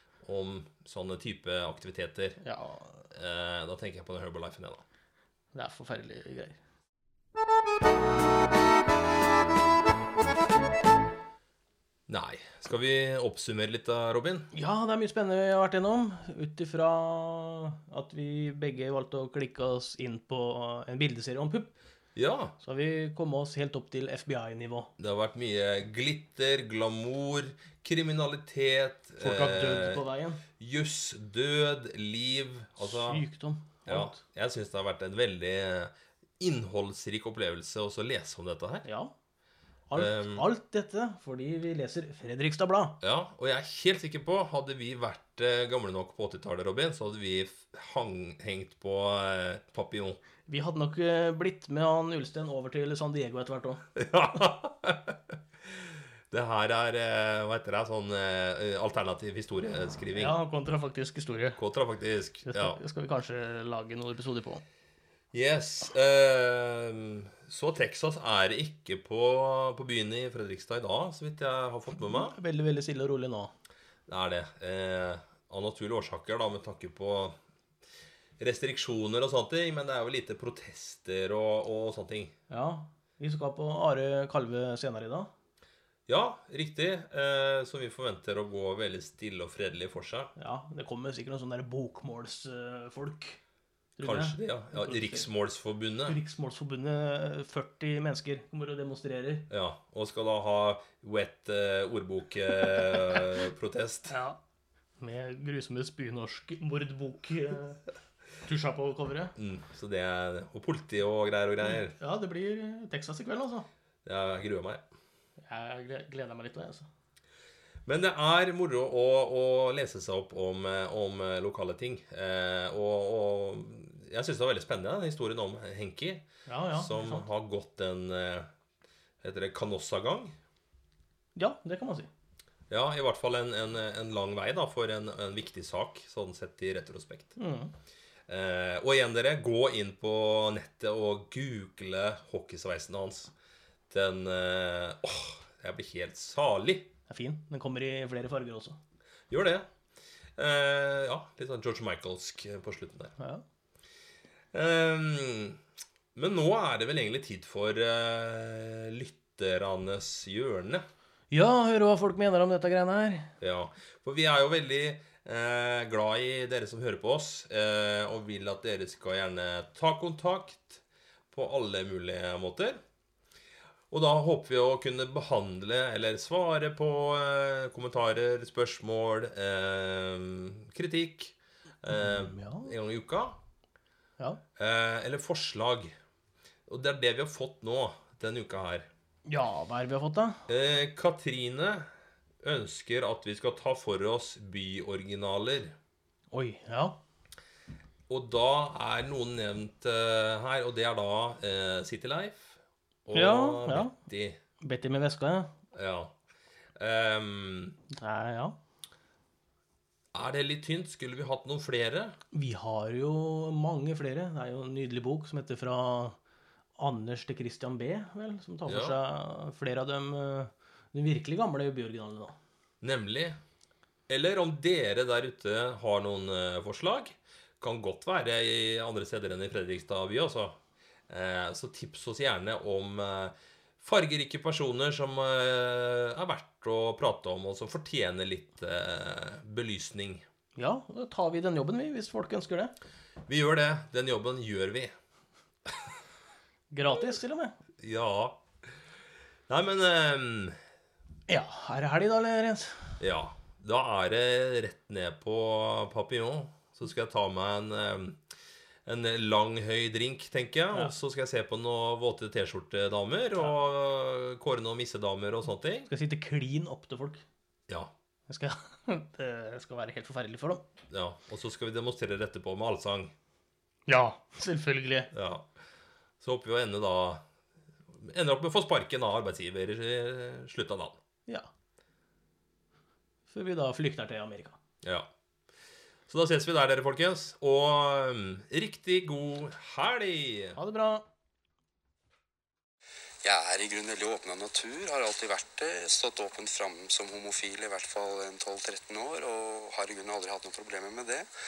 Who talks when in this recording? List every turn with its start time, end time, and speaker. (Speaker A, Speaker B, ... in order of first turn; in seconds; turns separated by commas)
Speaker A: 0.2-2.4, Speaker B: 2.4-3.1, Speaker A: 3.1-4.8, Speaker B: 5.5-6.6, Speaker A: 12.1-14.5, Speaker B: 14.5-21.8, Speaker A: 22.2-22.6, Speaker B: 22.6-24.9, Speaker A: 25.0-30.0, Speaker B: 29.2-30.4, Speaker A: 30.6-33.2, Speaker B: 32.8-34.2, Speaker A: 33.9-38.9, Speaker B: 38.9-39.1, Speaker B: 39.9-43.0, Speaker A: 40.0-40.5, Speaker A: 43.0-50.2, Speaker B: 50.5-53.9, Speaker A: 54.0-60.4, Speaker B: 60.1-61.6, Speaker A: 61.6-62.8, Speaker B: 62.5-64.6, Speaker A: 65.3-72.4, Speaker B: 71.9-73.5, Speaker A: 74.1-77.4, Speaker A: 78.4-82.3, Speaker B: 82.5-85.3, Speaker A: 86.1-90.3, Speaker B: 90.4-93.4, Speaker B: 94.0-95.3, Speaker A: 94.0-96.2, Speaker B: 96.1-99.5, Speaker A: 99.5-104.2, Speaker B: 104.1-104.4, Speaker B: 105.0-107.8, Speaker B: 108.4-109.3, Speaker A: 109.4-112.0, Speaker B: 111.7-113.7, Speaker A: 114.0-114.8, Speaker B: 115.4-116.9, Speaker A: 117.9-128.5, Speaker B: 126.5-127.3, Speaker A: 129.2-130.4, Speaker B: 131.3-132.1, Speaker A: 132.7-137.4, Speaker B: 137.4-137.7, Speaker A: 138.3-143.3, Speaker A: 143.9-146.9, Speaker B: 147.1-148.8, Speaker A: 149.3-149.7, Speaker A: 150.4-153.1, Speaker A: 154.5-155.6, Speaker A: 156.2-160.9, Speaker B: 161.3-163.3, Speaker A: 163.4-172.8, Speaker A: 173.9-183.4, Speaker B: 181.9-182.7, Speaker A: 184.6-185.9, Speaker A: 186.7-188.9, Speaker B: 189.3-190.5, Speaker A: 190.5-191.9, Speaker A: 192.4-195.8, Speaker B: 196.3-197.0, Speaker A: 198.1-204.4, Speaker B: 203.1-204.0, Speaker B: 204.6-205.5, Speaker A: 205.7-206.1, Speaker A: 206.8-207.8, Speaker B: 207.9-208.6, Speaker A: 210.1-212.2, Speaker B: 212.3-216.2, Speaker B: 216.8-222.4, Speaker A: 218.7-219.0, Speaker A: 222.8-223.4, Speaker A: 224.1-230.6, Speaker A: 231.1-240.2, Speaker B: 240.6-242.7, Speaker A: 243.3-244.9, Speaker B: 246.7-247.5, Speaker A: 247.8-248.4, Speaker A: 249.5-250.6, Speaker B: 251.3-253.0, Speaker A: 253.0-258.2, Speaker A: 258.9-265.9, Speaker B: 265.9-267.2, Speaker B: 268.3-270.6, Speaker A: 270.9-273.1, Speaker B: 273.9-275.1, Speaker A: 275.1-275.5, Speaker A: 276.2-277.2, Speaker A: 277.9-281.0, Speaker B: 283.3-284.6, Speaker A: 284.8-285.1, Speaker A: 286.1-290.6, Speaker B: 290.6-291.1, Speaker C: 293.2-301.3